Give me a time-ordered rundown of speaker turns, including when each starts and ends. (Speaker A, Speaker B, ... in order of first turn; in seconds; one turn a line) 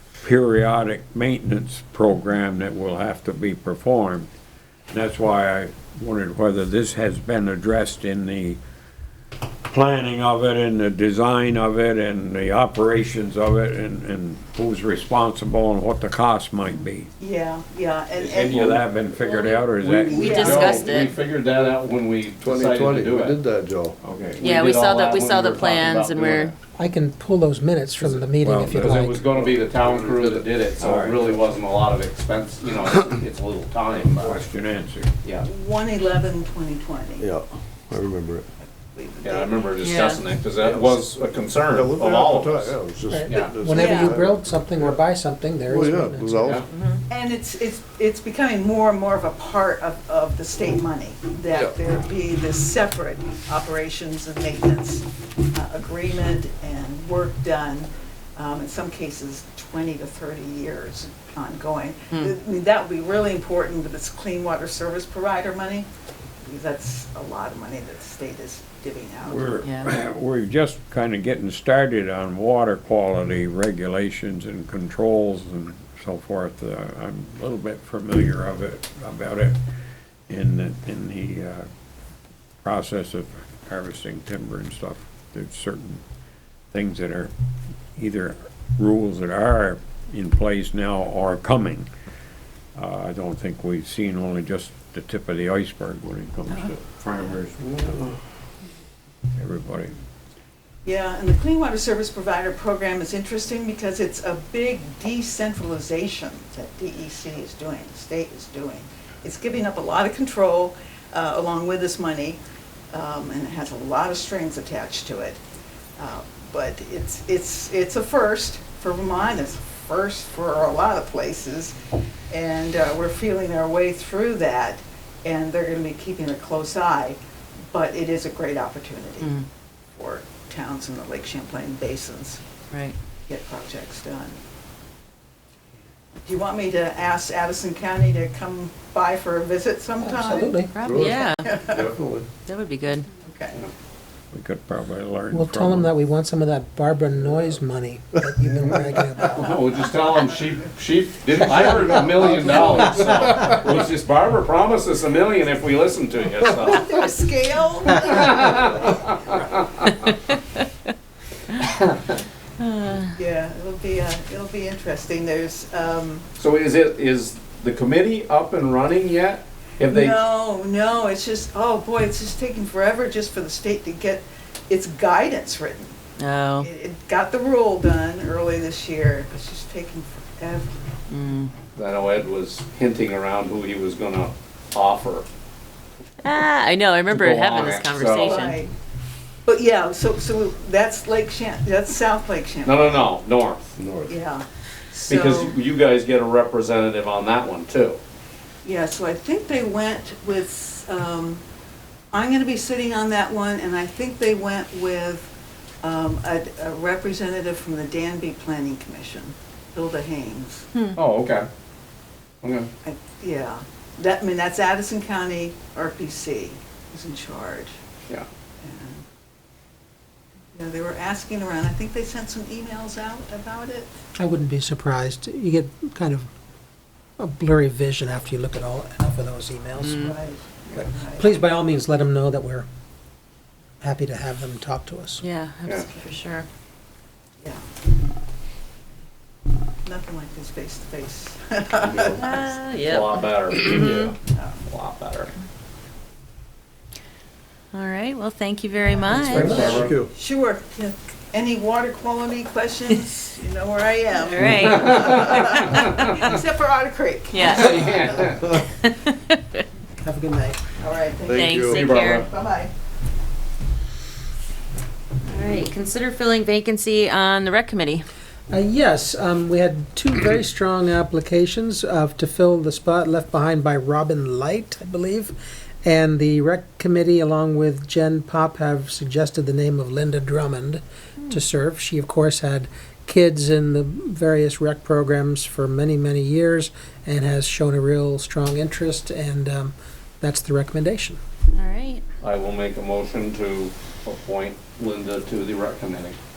Speaker A: 0.2-4.3
Speaker A: 4.9-8.6
Speaker A: 9.7-17.1
Speaker B: 16.7-18.8
Speaker A: 18.2-20.6
Speaker C: 19.8-23.4
Speaker B: 20.1-21.0
Speaker D: 20.1-21.2
Speaker E: 22.4-23.9
Speaker A: 24.0-24.4
Speaker C: 24.4-26.6
Speaker D: 24.4-26.5
Speaker F: 26.8-29.2
Speaker A: 28.3-29.0
Speaker C: 28.7-34.4
Speaker E: 29.4-30.8
Speaker A: 30.8-31.3
Speaker A: 34.0-35.1
Speaker B: 35.4-37.3
Speaker E: 37.2-38.5
Speaker B: 38.9-40.0
Speaker C: 39.2-43.5
Speaker D: 39.8-40.2
Speaker E: 40.6-41.0
Speaker E: 41.6-45.0
Speaker F: 43.1-46.6
Speaker B: 43.4-44.2
Speaker E: 45.7-46.7
Speaker D: 46.7-47.0
Speaker B: 47.1-65.9
Speaker E: 51.5-51.8
Speaker B: 66.4-69.6
Speaker A: 69.2-79.6
Speaker D: 69.6-69.9
Speaker A: 80.3-81.7
Speaker A: 82.6-86.0
Speaker A: 86.7-87.3
Speaker A: 88.0-91.9
Speaker A: 92.8-98.1
Speaker A: 99.4-99.9
Speaker B: 100.8-112.4
Speaker B: 112.9-115.4
Speaker B: 116.0-121.7
Speaker B: 122.3-127.2
Speaker B: 127.7-129.3
Speaker D: 129.2-129.5
Speaker B: 130.0-132.4
Speaker B: 133.3-134.4
Speaker B: 136.2-140.7
Speaker F: 140.0-140.7
Speaker D: 140.7-141.5
Speaker E: 140.8-142.3
Speaker B: 141.4-141.9
Speaker D: 142.4-143.1
Speaker B: 143.2-143.6
Speaker A: 144.3-145.9
Speaker F: 145.3-149.6
Speaker E: 148.5-149.0
Speaker C: 149.2-157.0
Speaker E: 151.7-153.3
Speaker B: 156.5-159.2
Speaker C: 157.9-160.1
Speaker D: 160.1-160.6
Speaker C: 161.7-162.2
Speaker D: 162.6-163.2
Speaker B: 163.2-166.3
Speaker C: 166.4-170.2
Speaker B: 169.9-176.0
Speaker D: 176.2-176.7
Speaker B: 176.6-180.8
Speaker D: 181.1-181.5
Speaker C: 181.8-185.2
Speaker D: 186.2-188.6
Speaker C: 187.1-188.4
Speaker B: 188.2-188.7
Speaker B: 189.5-193.1
Speaker C: 192.7-193.8
Speaker E: 193.8-194.1
Speaker B: 194.1-195.6
Speaker C: 195.1-198.0
Speaker B: 198.6-201.4
Speaker B: 202.1-205.3
Speaker B: 205.8-210.7
Speaker C: 210.9-211.5
Speaker C: 212.4-212.7
Speaker B: 212.8-217.7
Speaker B: 218.6-219.0
Speaker B: 220.5-223.9
Speaker F: 224.2-226.3
Speaker F: 227.2-230.2
Speaker D: 229.8-230.1
Speaker B: 230.0-231.4
Speaker F: 230.8-232.7
Speaker F: 233.8-235.2
Speaker D: 235.2-236.5
Speaker B: 239.8-242.5
Speaker E: 241.8-242.2
Speaker D: 242.2-244.1
Speaker C: 242.7-244.1
Speaker E: 243.7-244.1
Speaker B: 244.2-244.6
Speaker C: 244.7-245.3
Speaker D: 247.7-249.6
Speaker B: 248.8-258.4
Speaker C: 249.2-249.9
Speaker F: 249.3-249.8
Speaker E: 249.4-250.1
Speaker D: 254.2-256.2
Speaker C: 254.4-255.2
Speaker D: 257.3-257.8
Speaker C: 257.4-258.4
Speaker D: 258.4-259.6
Speaker F: 260.0-260.6
Speaker B: 260.8-262.7
Speaker E: 261.2-261.8
Speaker D: 261.3-262.3
Speaker C: 261.6-262.2
Speaker D: 265.2-268.1
Speaker F: 268.5-291.2
Speaker D: 291.5-292.0
Speaker C: 292.2-296.2